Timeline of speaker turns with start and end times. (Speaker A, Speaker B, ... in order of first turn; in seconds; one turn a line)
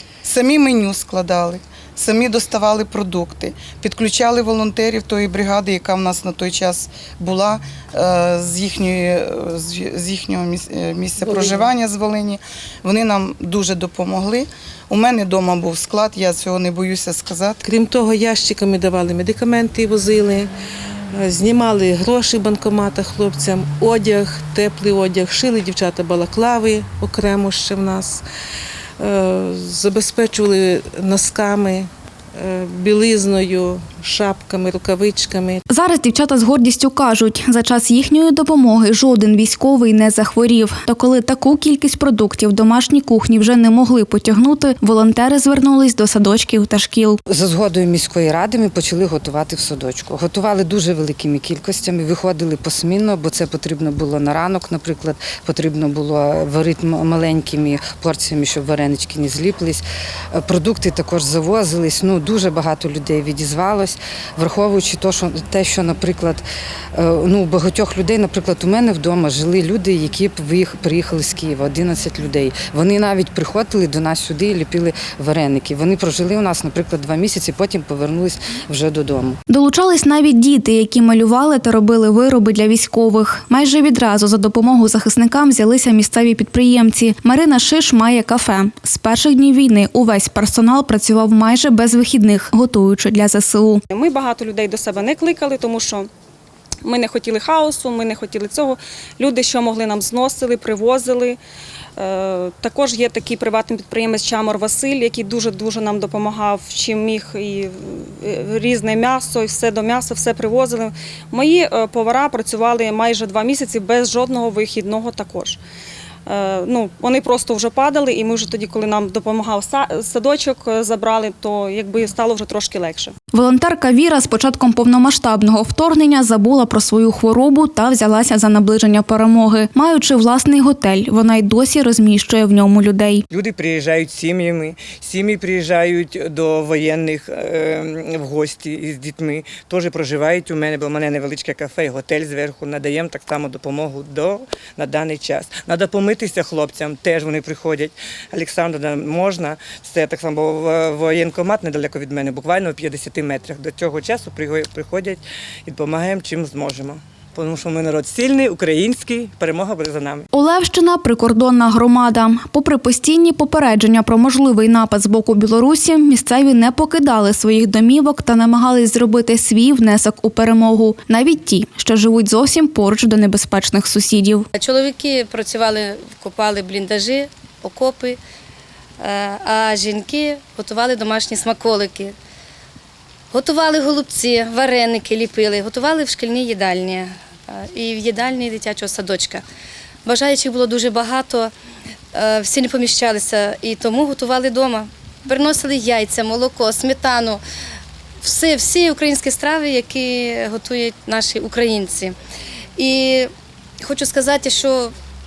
Speaker A: 0.2-17.6
Speaker B: 11.2-11.7
Speaker B: 17.6-20.5
Speaker B: 21.1-28.2
Speaker B: 29.0-35.6
Speaker C: 35.7-47.2
Speaker D: 47.3-66.4
Speaker D: 66.9-79.4
Speaker C: 79.5-93.8
Speaker E: 93.9-96.1
Speaker E: 96.8-101.4
Speaker E: 102.0-115.6
Speaker E: 116.3-123.1
Speaker C: 123.3-133.2
Speaker F: 133.3-160.2
Speaker C: 160.3-174.5
Speaker G: 174.6-178.2
Speaker G: 179.0-182.1
Speaker G: 183.3-189.4
Speaker G: 190.0-191.5
Speaker G: 192.1-197.4
Speaker G: 198.2-202.1
Speaker G: 202.8-203.3
Speaker G: 203.8-204.9